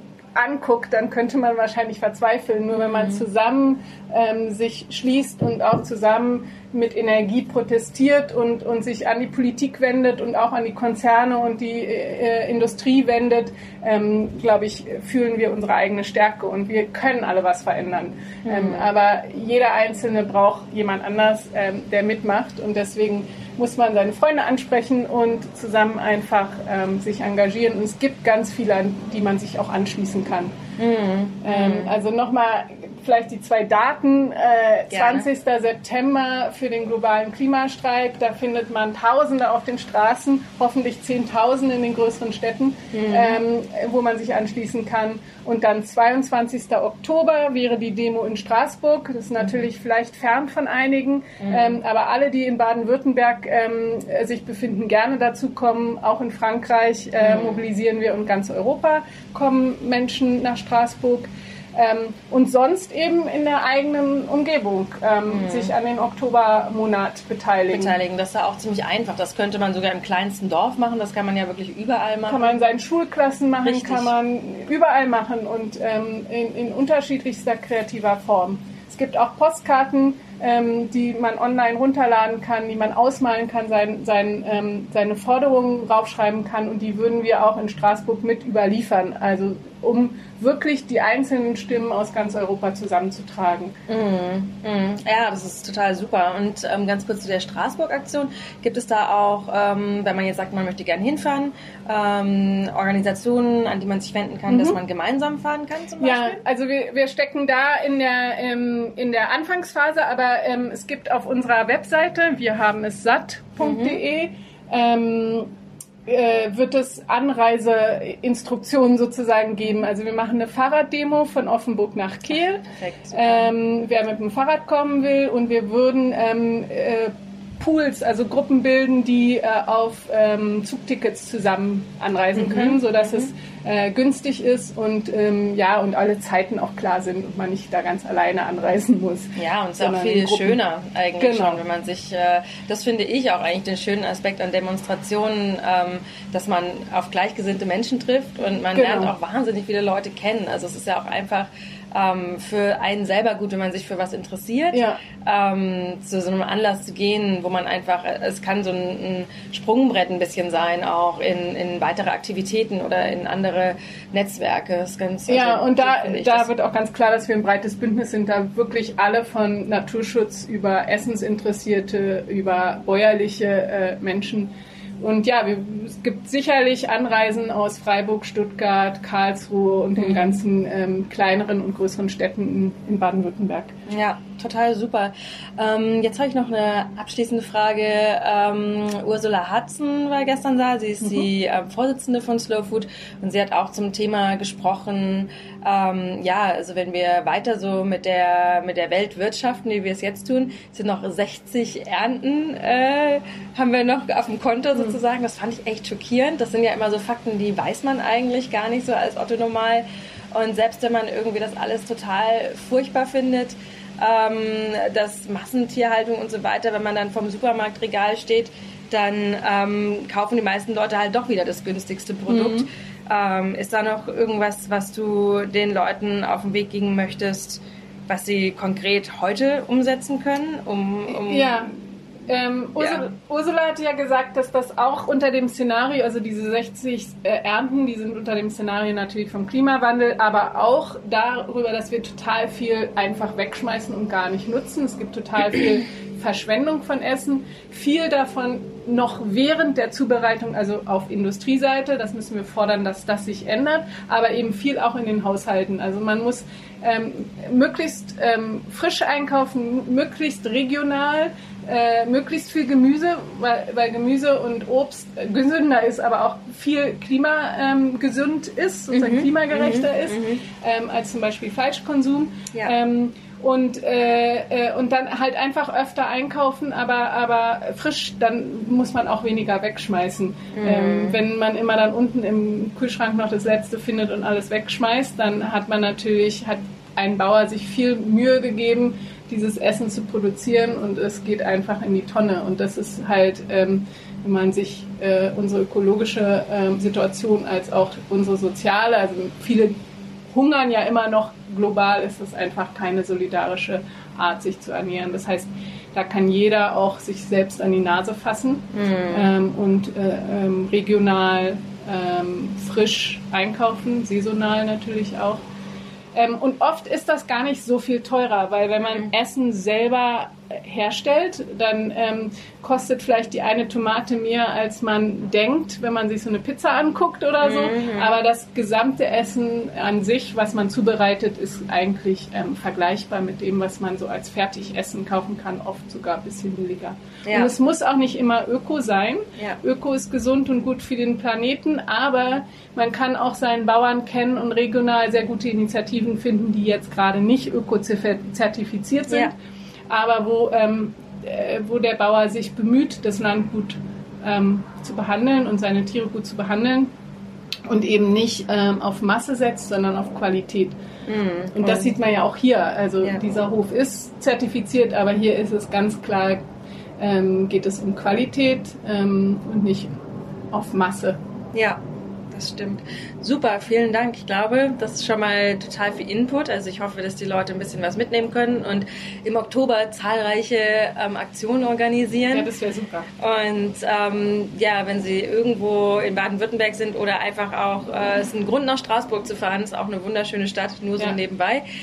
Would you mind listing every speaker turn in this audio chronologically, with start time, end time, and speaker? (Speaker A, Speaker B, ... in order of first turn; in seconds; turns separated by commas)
Speaker A: 0.3-30.6, Speaker B: 2.8-3.2, Speaker B: 18.5-18.9, Speaker B: 30.8-31.9, Speaker A: 31.4-68.0, Speaker B: 34.9-35.3, Speaker B: 42.9-43.4, Speaker B: 51.4-51.8, Speaker B: 57.2-57.6, Speaker B: 65.3-65.7, Speaker B: 67.7-72.5, Speaker A: 72.3-93.8, Speaker B: 73.6-74.1, Speaker B: 93.9-106.4, Speaker A: 104.5-104.8, Speaker A: 106.0-115.5, Speaker B: 113.6-114.0, Speaker A: 116.1-140.6, Speaker B: 122.8-123.5, Speaker B: 132.3-133.2, Speaker B: 139.3-166.5, Speaker A: 141.2-141.6, Speaker A: 148.7-149.1, Speaker A: 154.7-155.0, Speaker A: 165.3-183.7, Speaker B: 180.0-180.4, Speaker B: 183.9-231.7, Speaker A: 191.0-191.3, Speaker A: 222.3-222.7, Speaker A: 231.1-231.7, Speaker A: 232.3-299.8, Speaker B: 232.8-233.1, Speaker B: 268.9-270.4, Speaker B: 280.5-281.2, Speaker A: 300.3-315.4, Speaker B: 308.7-309.3, Speaker A: 316.1-349.4, Speaker B: 327.4-328.1, Speaker B: 337.2-337.5, Speaker A: 349.9-356.9, Speaker A: 357.7-360.8, Speaker B: 361.1-362.0, Speaker A: 361.6-366.4, Speaker A: 367.0-369.9, Speaker A: 370.5-371.2, Speaker B: 371.5-371.8, Speaker B: 372.3-382.5, Speaker A: 382.3-383.1, Speaker B: 383.2-391.6